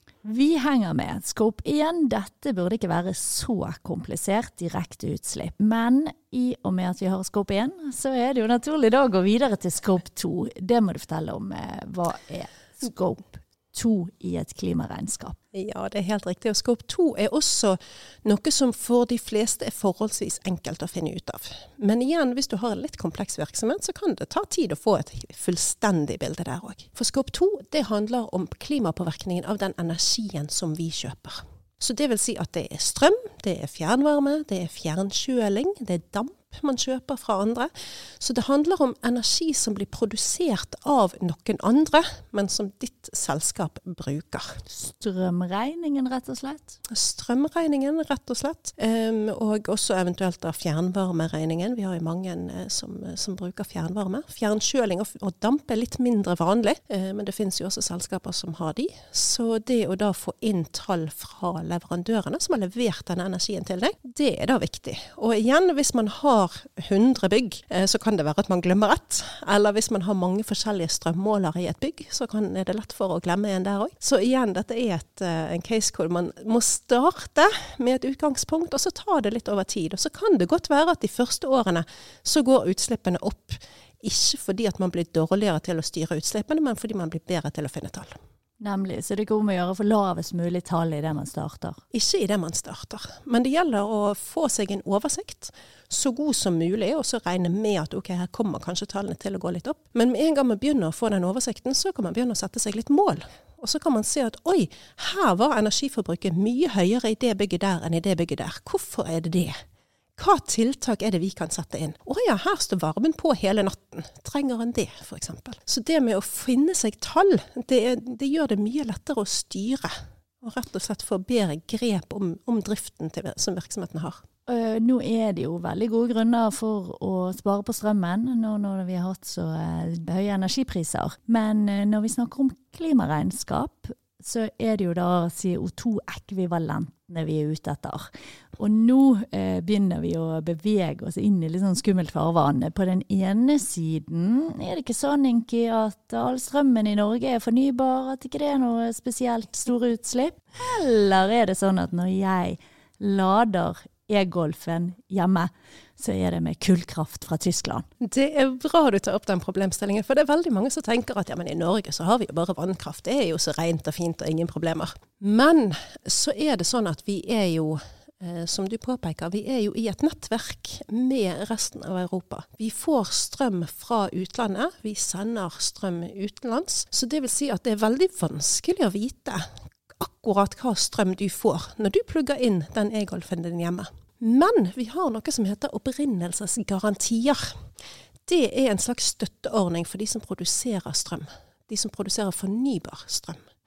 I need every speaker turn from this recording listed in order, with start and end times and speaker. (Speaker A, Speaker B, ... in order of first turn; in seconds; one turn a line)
Speaker A: 0.2-15.4
Speaker B: 15.5-44.6
Speaker A: 44.7-46.8
Speaker B: 46.9-88.2
Speaker A: 88.6-91.8
Speaker B: 91.9-109.6
Speaker B: 110.2-124.2
Speaker A: 124.5-157.9
Speaker B: 158.0-179.5
Speaker B: 180.0-187.5
Speaker B: 188.2-193.5